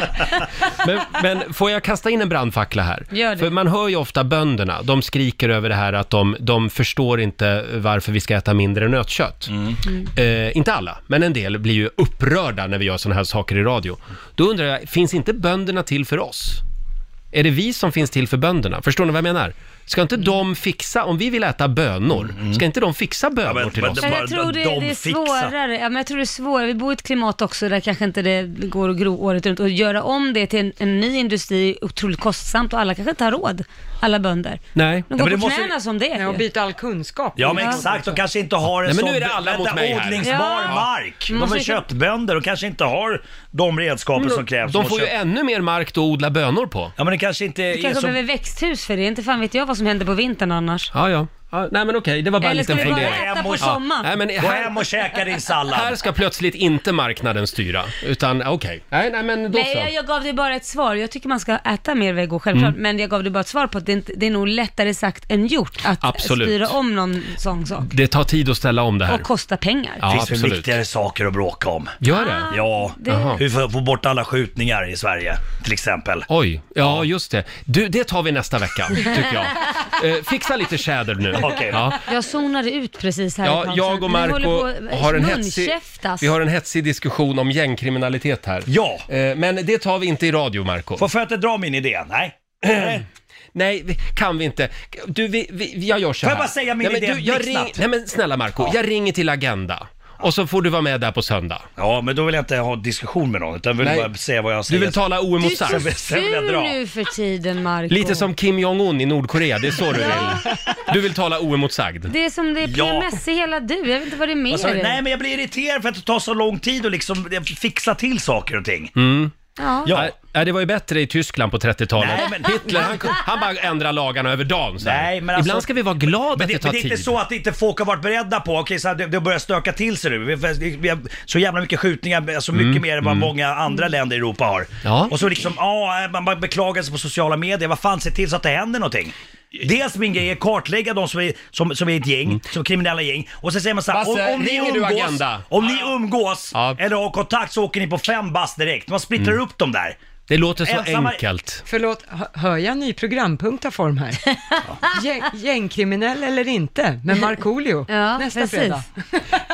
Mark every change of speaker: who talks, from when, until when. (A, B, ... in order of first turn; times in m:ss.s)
0:00.7-0:09.6 A
0:03.1-0:03.5 B
0:10.2-0:16.6 A
0:17.3-0:24.2 A
0:22.1-0:22.6 C
0:23.4-0:25.5 C
0:24.0-0:36.5 B
0:34.8-0:35.1 A
0:35.2-0:35.7 C
0:36.2-0:38.2 D
0:37.4-0:45.1 C
0:38.8-0:40.8 A
0:40.2-0:41.8 B
0:44.2-0:46.9 A
0:47.0-0:48.2 C
0:47.8-0:50.9 B
0:50.9-0:54.8 A
0:52.4-0:54.1 B
0:52.8-0:53.8 C
0:54.4-0:56.0 C
0:55.7-0:59.9 A
0:59.5-1:07.9 B
1:06.0-1:06.7 A
1:07.8-1:09.3 A
1:09.1-1:10.0 B
1:10.0-1:10.7 A
1:10.1-1:12.0 C
1:12.0-1:12.5 A
1:12.1-1:13.4 B
1:12.5-1:16.3 C
1:13.1-1:13.4 A
1:16.3-1:22.0 A
1:16.8-1:17.1 C
1:21.4-1:21.9 C
1:22.1-1:26.3 B
1:23.4-1:31.1 A
1:28.7-1:29.1 C
1:31.0-1:33.0 C
1:32.6-1:33.0 A
1:33.6-1:41.7 A
1:36.2-1:37.8 C
1:41.8-1:46.8 C
1:43.8-1:44.1 A
1:44.7-1:45.9 A
1:45.4-1:48.3 B
1:47.9-1:52.1 A
1:49.8-1:50.6 B
1:52.1-1:55.0 B
1:52.6-1:53.1 C
1:54.5-1:58.9 C
1:59.0-1:59.3 A
1:59.6-2:00.0 B
1:59.8-2:00.1 C
1:59.8-2:07.2 A
2:02.0-2:03.1 C
2:04.8-2:30.0 C
2:12.5-2:13.3 A
2:14.8-2:15.1 A
2:23.9-2:25.5 A
2:30.3-2:31.6 A
2:30.6-2:31.2 C
2:31.7-2:34.3 D
2:34.9-2:39.4 D
2:37.9-2:38.8 B